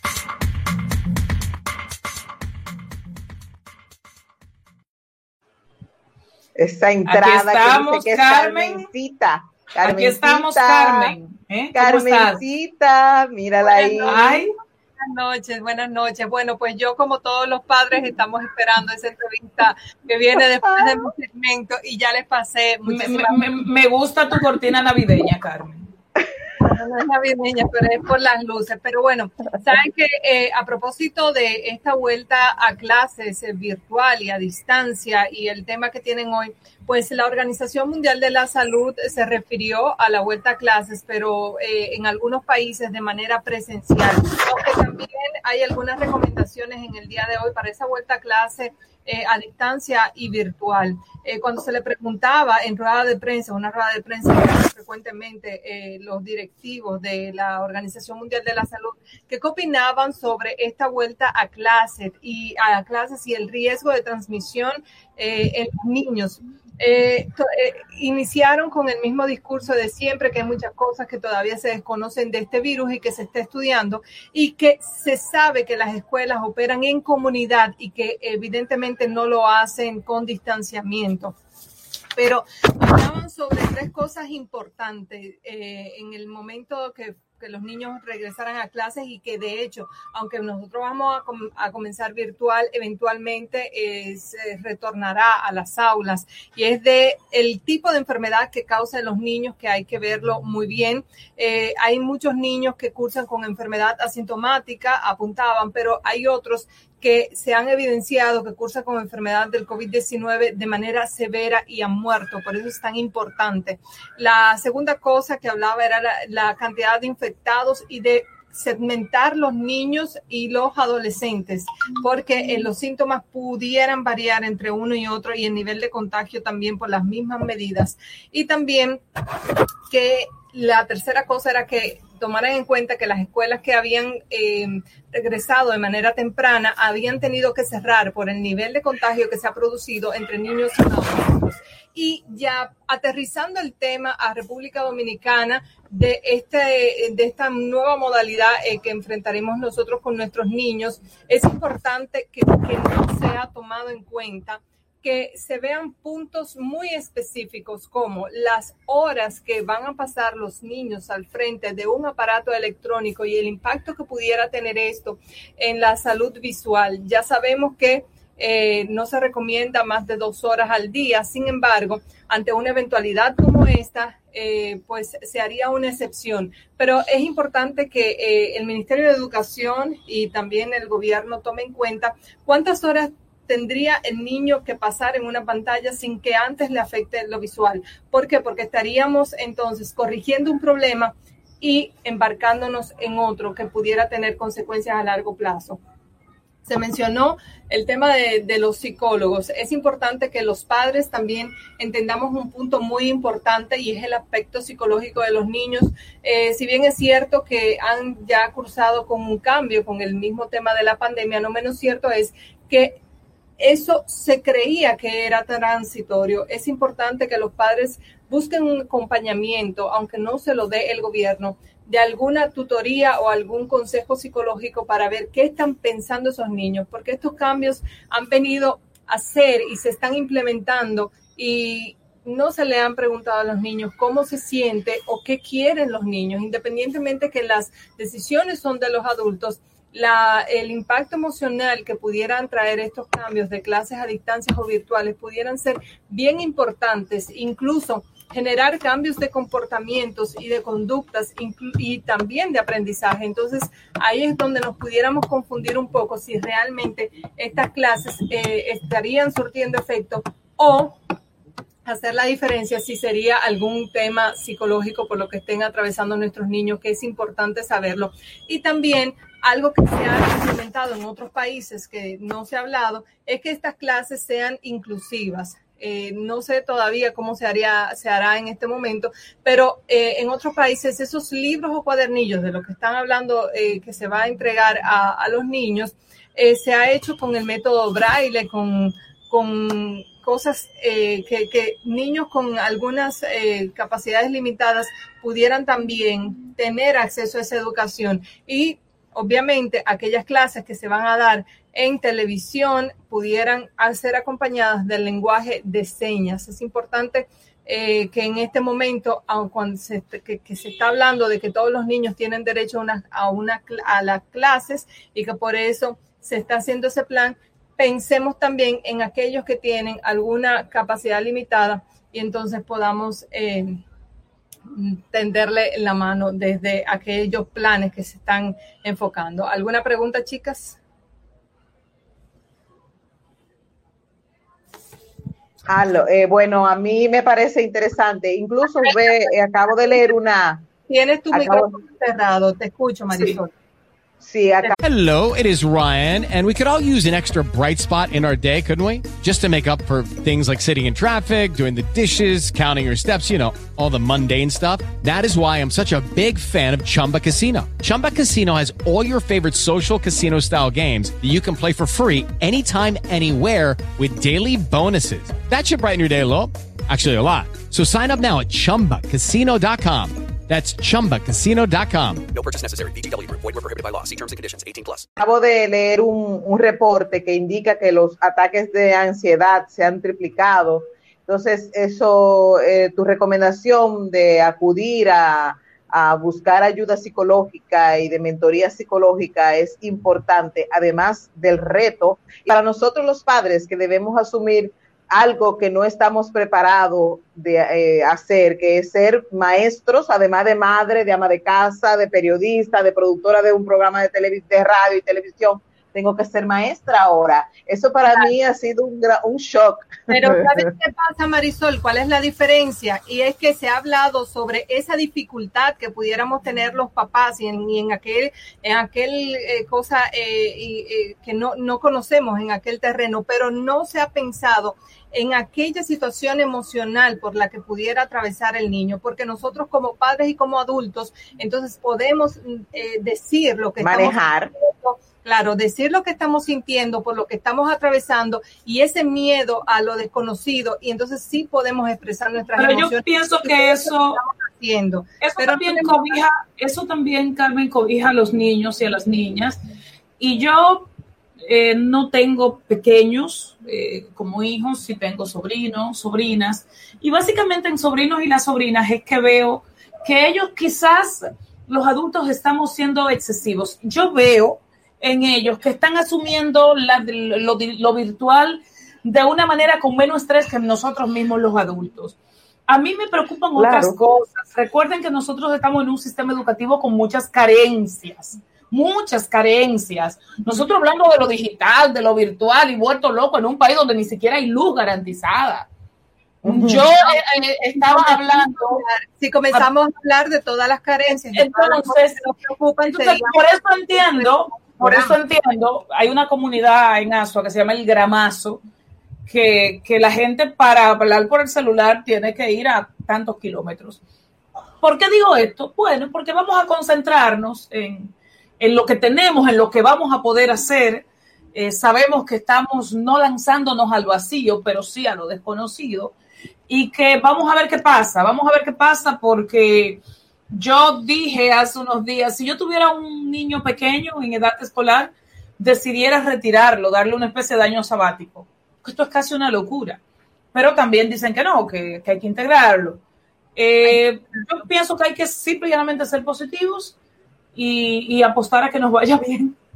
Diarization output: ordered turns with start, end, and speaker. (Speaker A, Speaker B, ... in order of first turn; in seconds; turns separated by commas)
Speaker A: 6.5-11.1, Speaker B: 7.0-8.9, Speaker B: 9.8-12.4, Speaker A: 11.7-14.2, Speaker C: 13.6-14.5, Speaker B: 14.0-14.5, Speaker C: 15.0-23.5, Speaker A: 20.8-21.0, Speaker B: 22.9-25.9, Speaker C: 26.6-81.4, Speaker C: 82.2-129.0, Speaker C: 129.9-195.8, Speaker C: 196.6-213.0, Speaker C: 213.6-261.0, Speaker C: 261.8-323.8, Speaker C: 324.7-330.8, Speaker A: 335.7-340.6, Speaker C: 338.8-339.2, Speaker C: 340.9-343.5, Speaker A: 341.3-341.8, Speaker A: 344.2-344.8, Speaker D: 344.8-372.3, Speaker E: 372.3-375.1, Speaker A: 375.2-410.5, Speaker C: 410.1-446.2, Speaker A: 433.8-434.5, Speaker B: 442.6-444.2, Speaker B: 445.2-449.6, Speaker B: 450.2-450.9, Speaker B: 451.4-472.1, Speaker B: 472.7-485.7, Speaker A: 473.6-473.9, Speaker A: 486.4-486.9, Speaker B: 486.4-488.8, Speaker C: 487.1-495.2, Speaker B: 491.3-492.2, Speaker B: 492.8-498.6, Speaker B: 499.3-504.0, Speaker B: 504.8-516.1, Speaker B: 516.7-520.0, Speaker B: 520.5-530.0, Speaker B: 530.5-533.0, Speaker B: 533.5-536.9, Speaker B: 537.5-539.5